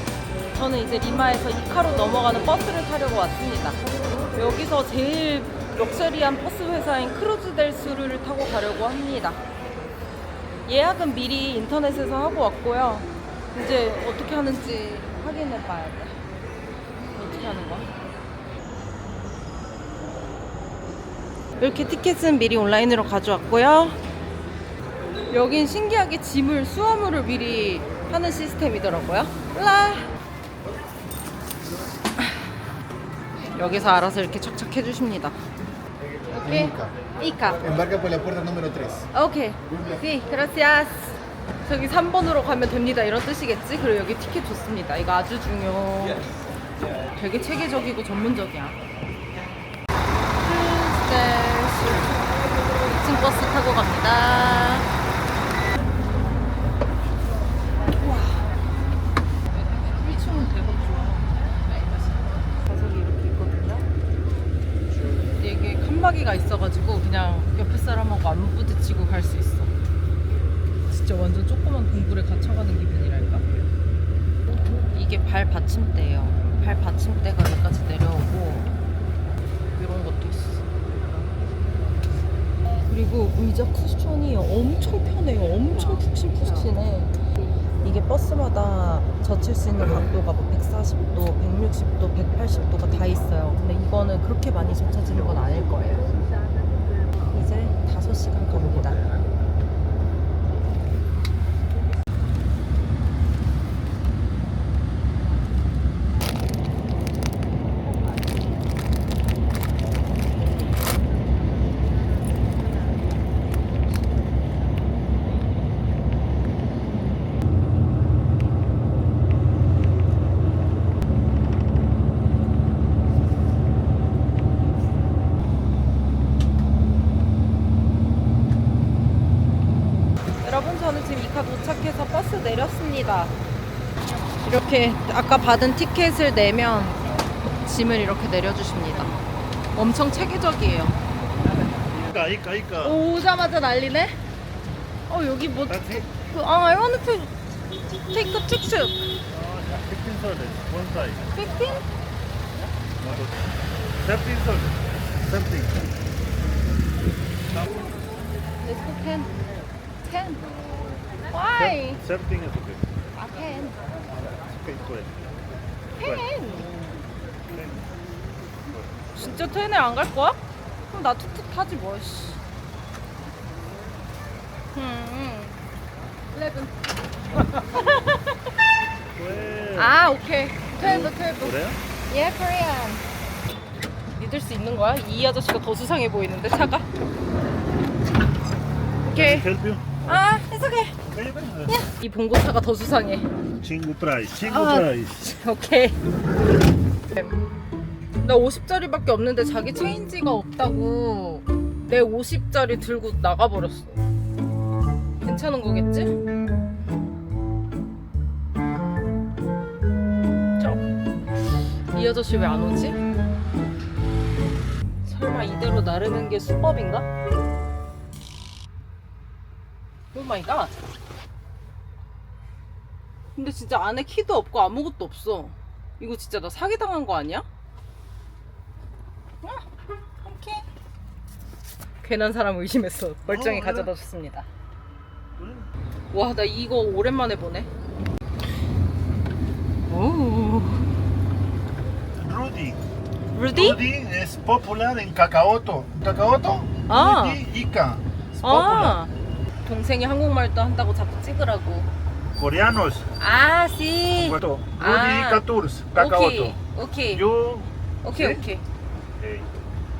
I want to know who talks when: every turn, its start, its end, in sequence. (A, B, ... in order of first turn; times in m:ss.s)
0:00.5-0:03.8 A
0:04.3-0:09.4 A
0:10.7-0:16.2 A
0:17.1-0:17.9 A
0:21.6-0:24.0 A
0:25.3-0:30.0 A
0:33.5-0:35.4 A
0:36.3-0:37.7 A
0:39.1-0:46.2 A
0:47.1-0:48.8 A
0:50.4-0:52.1 A
0:52.9-0:54.9 A
0:58.0-0:58.5 A
0:59.7-1:01.3 A
1:02.6-1:03.9 A
1:05.4-1:09.7 A
1:10.9-1:13.4 A
1:14.9-1:18.7 A
1:19.8-1:20.6 A
1:22.9-1:27.2 A
1:27.8-1:36.1 A
1:37.3-1:39.0 A
2:10.4-2:13.3 A
2:14.4-2:17.0 A
2:17.6-2:19.2 A
2:19.7-2:21.0 A
2:22.1-2:23.0 B
2:22.8-2:24.2 A
2:25.1-2:27.3 A
2:25.6-2:26.1 B
2:27.9-2:29.0 A
2:29.3-2:31.3 B
2:31.3-2:31.8 A
2:33.0-2:33.3 B
2:34.0-2:35.9 B
2:38.6-2:39.3 A
2:40.0-2:40.4 A
2:41.3-2:42.0 A
2:41.6-2:42.9 B
2:43.1-2:43.8 A
2:44.1-2:45.2 B
2:46.0-2:46.7 A
2:46.0-2:46.2 B
2:47.5-2:47.9 B
2:48.7-2:49.4 B
2:49.2-2:52.4 A
2:54.7-2:55.5 A
2:56.3-2:56.7 A
2:57.6-2:58.3 A
2:59.1-3:00.0 B
2:59.8-3:01.5 A
3:00.8-3:01.8 B
3:02.1-3:03.0 A
3:04.2-3:06.9 A
3:09.0-3:09.4 A
3:09.1-3:10.1 B
3:10.0-3:10.9 A
3:11.0-3:11.8 B
3:11.7-3:13.3 A
3:13.6-3:15.3 B
3:14.4-3:16.0 A
3:18.2-3:24.0 A
3:25.2-3:26.1 A
3:31.9-3:33.0 A
3:35.0-3:37.1 A
3:40.1-3:40.7 A
3:43.4-3:47.4 A
3:50.2-3:50.6 A
3:52.0-3:54.4 A
3:53.2-3:53.9 B
3:55.4-3:55.7 B
3:56.1-3:57.7 A
3:59.9-4:00.9 A
4:02.2-4:02.8 B
4:03.3-4:03.8 A
4:03.5-4:09.0 B
4:06.9-4:07.4 A
4:08.4-4:09.1 A
4:09.6-4:11.9 A
4:12.4-4:13.0 B
4:13.2-4:15.4 A
4:14.1-4:16.6 B
4:15.9-4:17.2 A
4:17.1-4:18.4 B
4:18.0-4:18.6 A
4:19.2-4:19.5 B